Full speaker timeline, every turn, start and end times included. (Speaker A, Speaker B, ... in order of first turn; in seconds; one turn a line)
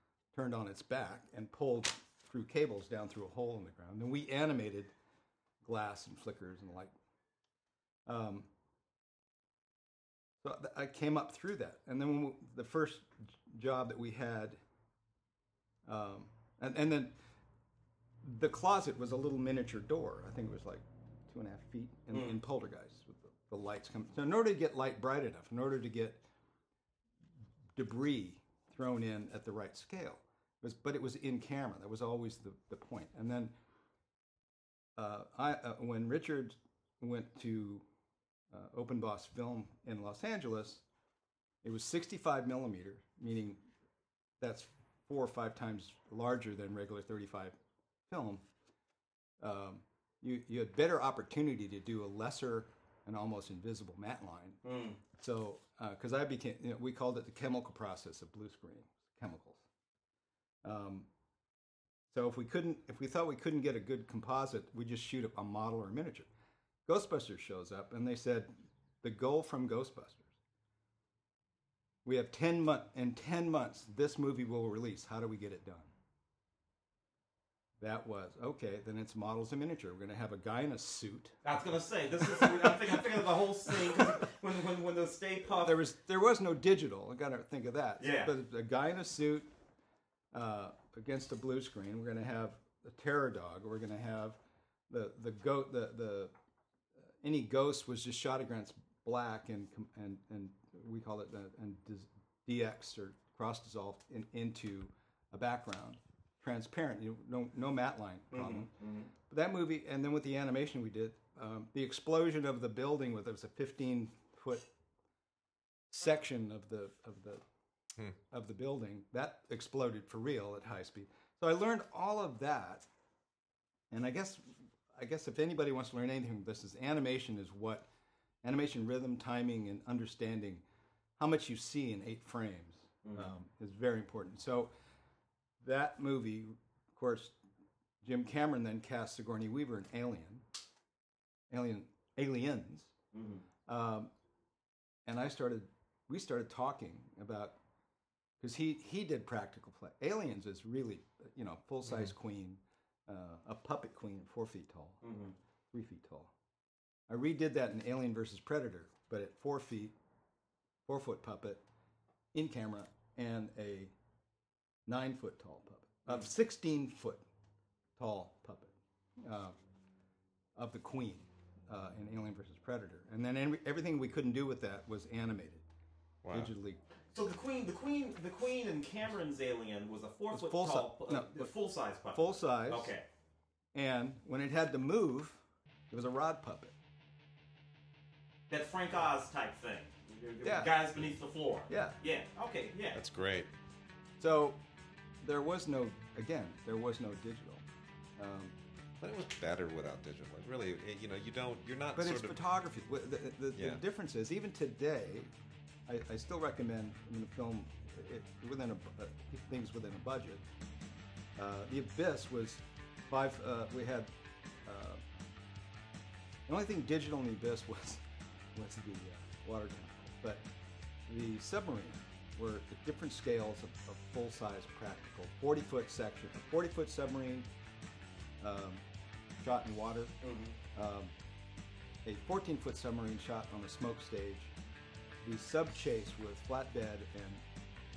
Speaker A: 0.3-4.9
Speaker A: 5.6-6.9
Speaker A: 8.1-8.5
Speaker A: 10.4-14.6
Speaker A: 15.8-17.1
Speaker A: 18.2-26.2
Speaker B: 22.1-22.4
Speaker A: 27.8-33.5
Speaker A: 35.0-37.8
Speaker A: 38.5-40.8
Speaker A: 41.6-43.6
Speaker A: 44.4-47.5
Speaker A: 48.1-48.4
Speaker A: 49.4-54.6
Speaker B: 54.6-55.0
Speaker A: 55.1-59.6
Speaker A: 60.6-61.1
Speaker A: 62.1-66.3
Speaker A: 66.8-70.3
Speaker A: 72.0-75.9
Speaker A: 77.8-81.4
Speaker B: 81.4-85.8
Speaker A: 82.2-84.2
Speaker A: 85.5-89.5
Speaker B: 88.0-88.3
Speaker A: 90.3-94.4
Speaker A: 94.9-96.3
Speaker A: 97.2-108.7
Speaker B: 108.3-109.1
Speaker A: 109.3-114.7
Speaker A: 115.9-117.4
Speaker A: 118.3-122.8
Speaker A: 123.9-127.9
Speaker A: 128.4-130.6
Speaker A: 131.2-134.7
Speaker B: 133.1-133.3
Speaker A: 135.6-137.3
Speaker A: 138.0-140.4
Speaker A: 141.5-142.9
Speaker B: 143.1-143.4
Speaker A: 143.7-144.1
Speaker A: 145.1-147.6
Speaker A: 148.4-155.0
Speaker B: 155.0-155.3
Speaker A: 155.7-156.3
Speaker A: 157.1-159.9
Speaker A: 160.8-161.6
Speaker A: 162.3-163.9
Speaker A: 164.9-167.2
Speaker A: 168.0-169.6
Speaker A: 170.6-175.6
Speaker C: 176.2-176.5
Speaker A: 176.3-176.8
Speaker B: 177.1-183.1
Speaker A: 180.3-181.5
Speaker A: 182.1-182.9
Speaker A: 183.7-186.7
Speaker B: 188.5-193.0
Speaker A: 190.4-190.7
Speaker A: 191.7-192.0
Speaker C: 192.9-193.5
Speaker A: 194.2-194.6
Speaker A: 195.2-197.6
Speaker A: 198.2-198.5
Speaker C: 199.0-202.4
Speaker A: 201.9-205.3
Speaker C: 203.6-203.8
Speaker A: 205.9-210.4
Speaker A: 211.3-214.1
Speaker A: 214.7-215.0
Speaker A: 216.5-218.0
Speaker A: 218.6-220.4
Speaker A: 221.1-227.5
Speaker A: 228.4-228.8
Speaker A: 229.4-230.2
Speaker B: 230.2-230.6
Speaker A: 230.7-231.1
Speaker A: 232.1-234.5
Speaker A: 235.2-237.4